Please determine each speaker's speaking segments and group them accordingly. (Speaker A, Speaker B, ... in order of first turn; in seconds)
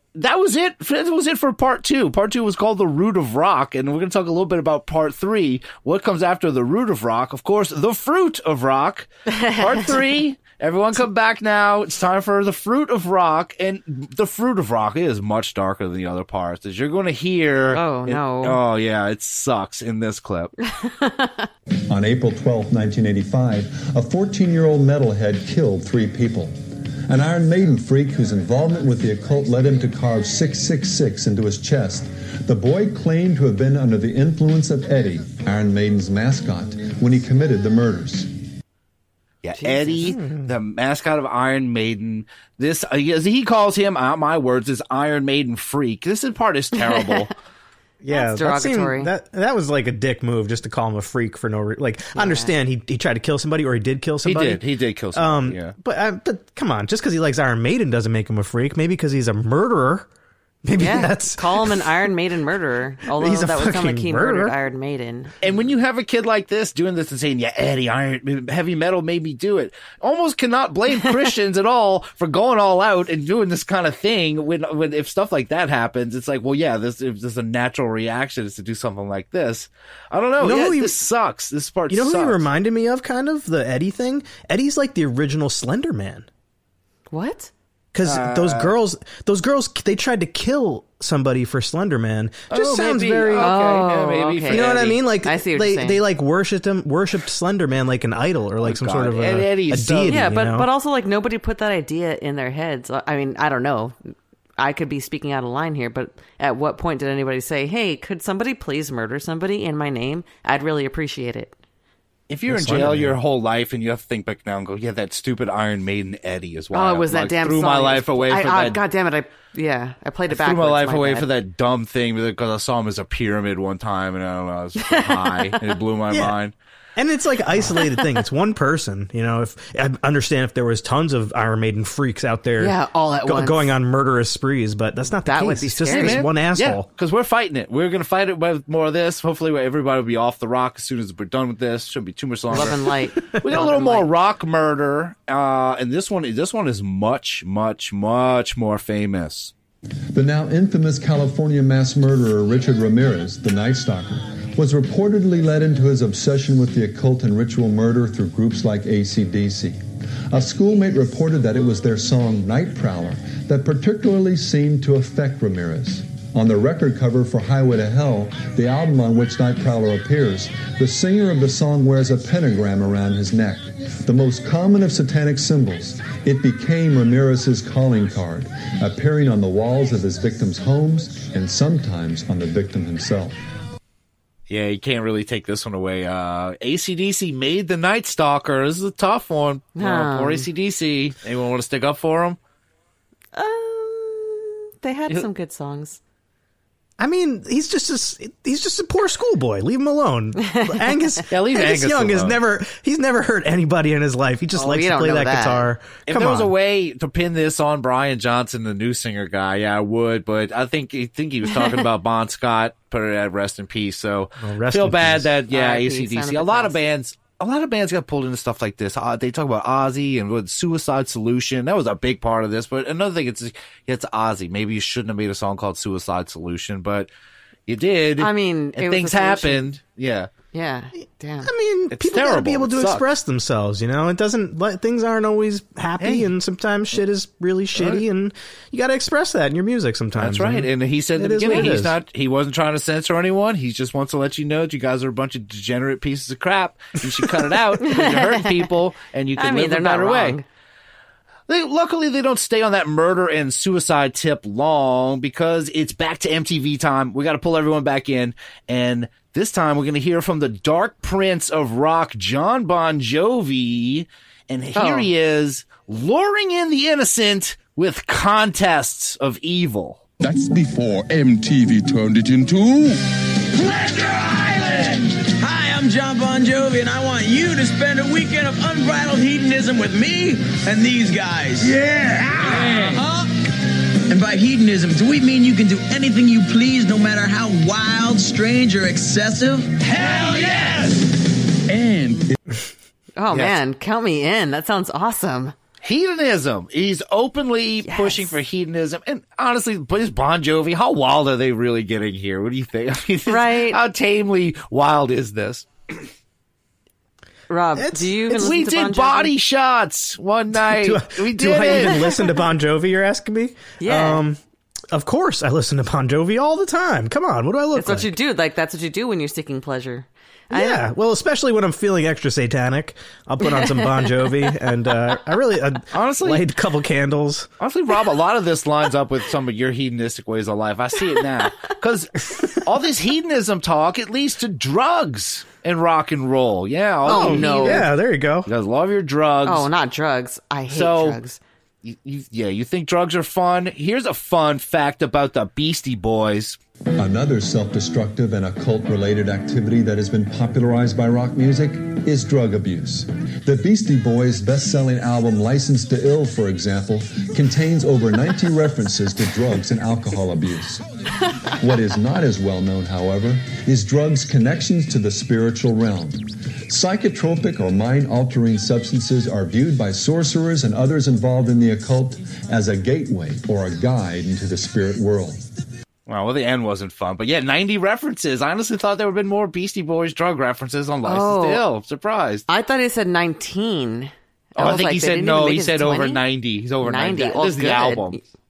Speaker A: 0.2-20.5, 39.4-47.3, 54.2-55.7, 65.4-82.5, 88.0-88.8, 92.5-95.0, 98.6-100.3, 112.3-118.8, 120.3-126.5, 135.9-149.5, 184.5-192.4, 201.3-202.4, 206.1-227.1, 227.7-230.3, 231.9-233.1, 236.0-236.3, 237.7-238.0, 240.2-250.4, 251.5-270.0, 290.0-290.7, 293.3-293.6, 295.8-306.0, 308.3-312.5, 325.9-326.5, 327.6-337.9, 338.5-339.7, 340.7-341.2, 341.8-346.6, 376.1-382.4, 384.6-388.2
Speaker B: 9.4-9.8, 17.7-18.6, 20.7-21.5, 39.6-40.1, 46.8-47.2, 48.1-49.1, 52.1-52.5, 60.8-65.3, 70.9-71.2, 87.1-87.5, 93.4-96.0, 100.1-111.5, 116.7-121.3, 124.8-125.8, 127.6-128.2, 132.6-133.7, 135.2-136.2, 142.5-144.1, 189.8-190.5, 193.3-196.0, 200.4-201.2, 204.5-205.7, 215.5-216.8, 228.2-229.7, 230.5-231.5, 247.8-248.6, 249.4-250.4, 264.8-265.1, 293.2-295.5, 297.9-298.4, 303.3-303.8, 307.5-309.3, 313.8-314.2, 317.8-320.9, 323.4-324.4, 337.1-337.9, 339.4-341.4, 381.0-381.6, 382.5-386.2, 386.8-388.2
Speaker C: 21.9-26.5, 27.1-38.3, 150.1-159.8, 160.3-183.3, 347.0-360.9, 361.5-375.4
Speaker D: 40.1-40.5, 48.0-54.6, 55.1-60.1, 60.6-62.1, 63.1-64.5, 80.4-81.0, 81.9-86.3, 87.9-93.5, 94.5-100.7, 112.5-113.2, 126.1-126.4, 127.0-136.9, 197.0-206.5, 214.4-215.3, 231.4-241.9, 307.8-308.5, 310.6-314.4, 314.9-318.1, 320.5-327.5, 337.1-338.5
Speaker E: 270.2-273.0, 281.6-283.0, 290.5-290.7, 291.7-292.2
Speaker F: 273.5-283.1, 284.1-290.5